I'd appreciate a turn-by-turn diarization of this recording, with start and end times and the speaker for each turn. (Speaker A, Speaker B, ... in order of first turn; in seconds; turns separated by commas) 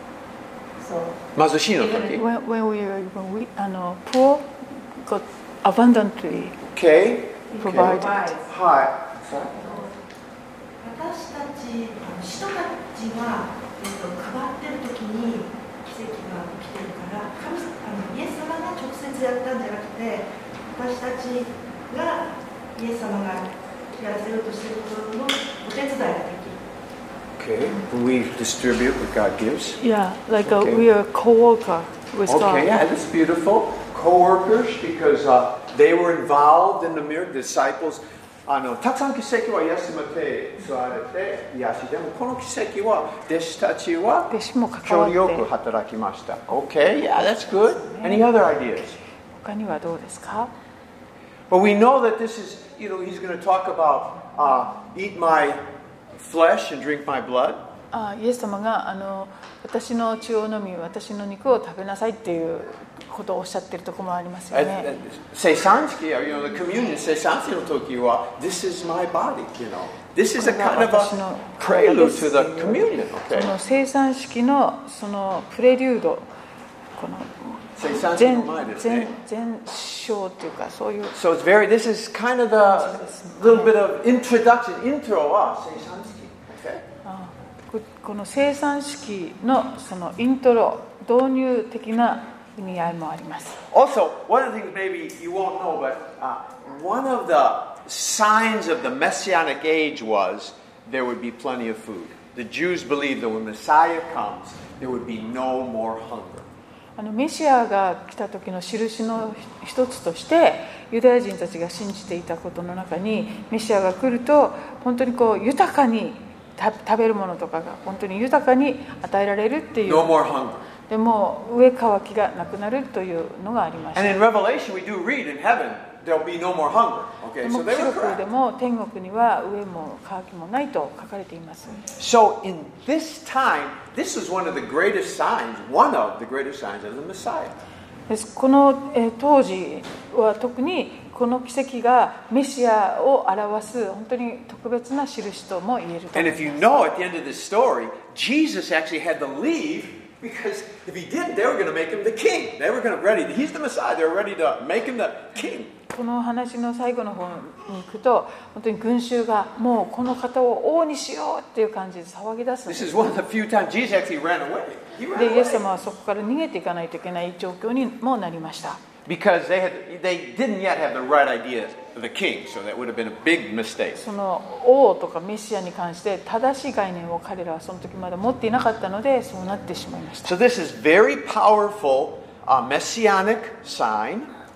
Speaker A: 0.8-1.2, Speaker B: 1.3-2.2, Speaker A: 1.8-2.0, Speaker C: 2.0-6.6, Speaker B: 6.7-9.6, Speaker A: 7.5-8.4, Speaker C: 7.6-8.3, Speaker A: 9.6-9.9, Speaker A: 10.8-26.6, Speaker B: 27.4-29.8, Speaker C: 29.8-32.7, Speaker B: 30.4-30.8, Speaker B: 32.3-49.0, Speaker C: 44.3-45.5, Speaker C: 47.0-48.2, Speaker C: 49.3-50.5, Speaker B: 51.5-55.6, Speaker B: 56.2-57.6, Speaker C: 57.9-64.9, Speaker B: 64.5-73.5, Speaker C: 70.3-76.3, Speaker C: 76.9-81.2, Speaker B: 77.8-79.1, Speaker B: 81.1-86.8, Speaker C: 82.6-83.8, Speaker C: 87.0-93.6, Speaker B: 93.7-106.5, Speaker C: 107.0-120.1, Speaker B: 119.8-120.7, Speaker C: 120.9-124.2, Speaker B: 123.9-128.2, Speaker C: 127.4-131.8, Speaker B: 132.0-137.5, Speaker C: 138.1-147.0, Speaker B: 146.1-155.7, Speaker C: 155.9-162.9, Speaker B: 162.7-165.6, Speaker C: 165.1-168.8, Speaker B: 169.0-174.0, Speaker C: 174.0-180.3, Speaker B: 180.2-184.3